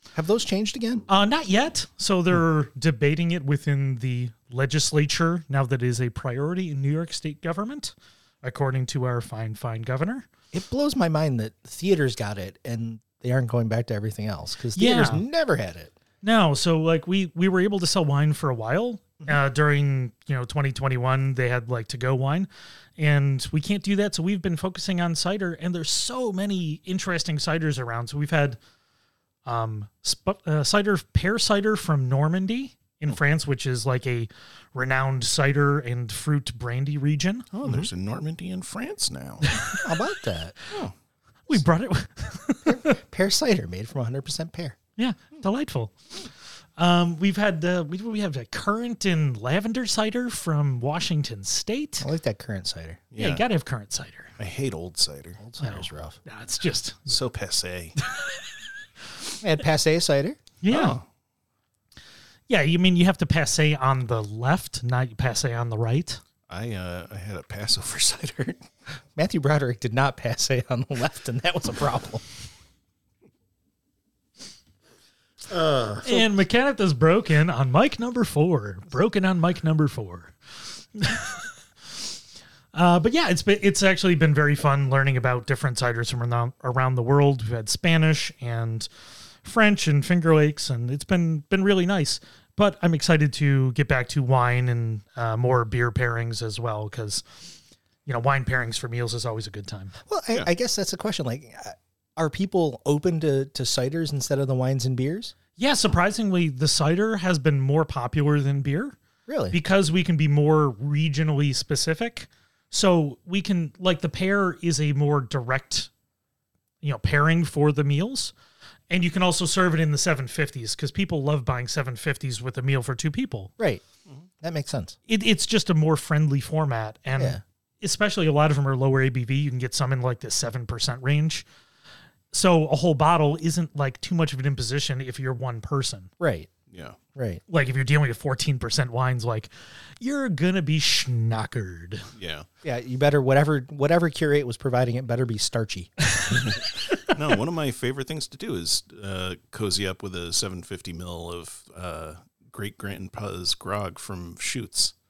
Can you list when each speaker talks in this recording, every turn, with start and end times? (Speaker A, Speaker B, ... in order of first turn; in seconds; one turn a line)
Speaker A: 0.1-1.1
Speaker B: 1.1-10.3
Speaker A: 10.5-15.9
Speaker B: 14.8-15.2
Speaker B: 16.2-28.6
Speaker B: 29.5-37.5
Speaker C: 37.5-39.5
Speaker A: 37.6-37.9
Speaker B: 39.5-39.9
Speaker A: 39.8-40.7
Speaker B: 41.5-43.0
Speaker A: 42.6-44.8
Speaker B: 45.0-45.9
Speaker B: 46.8-52.1
Speaker A: 52.0-53.0
Speaker C: 53.1-53.5
Speaker B: 53.2-54.3
Speaker C: 54.4-55.4
Speaker A: 55.4-56.2
Speaker B: 55.6-57.2
Speaker C: 57.1-58.0
Speaker B: 58.1-58.4
Speaker A: 59.4-60.4
Speaker B: 60.6-61.0
Speaker C: 60.7-61.0
Speaker B: 62.5-66.2
Speaker C: 66.5-68.6
Speaker A: 69.2-72.2
Speaker C: 75.5-76.2
Speaker B: 76.0-81.5
Speaker B: 82.7-88.9
Speaker B: 89.4-97.5
Speaker B: 98.1-99.9
Speaker A: 100.1-105.3
Speaker B: 105.6-109.0
Speaker A: 109.3-109.6
Speaker B: 109.5-115.9
Speaker B: 116.8-118.3
Speaker B: 118.9-123.5
Speaker A: 124.4-125.0
Speaker B: 125.1-131.4
Speaker A: 127.2-127.4
Speaker B: 132.3-136.1
Speaker A: 136.2-136.5
Speaker C: 136.7-137.0
Speaker A: 137.2-137.4
Speaker B: 137.5-142.1
Speaker C: 142.2-142.5
Speaker A: 142.6-146.1
Speaker B: 146.1-146.4
Speaker C: 146.4-154.9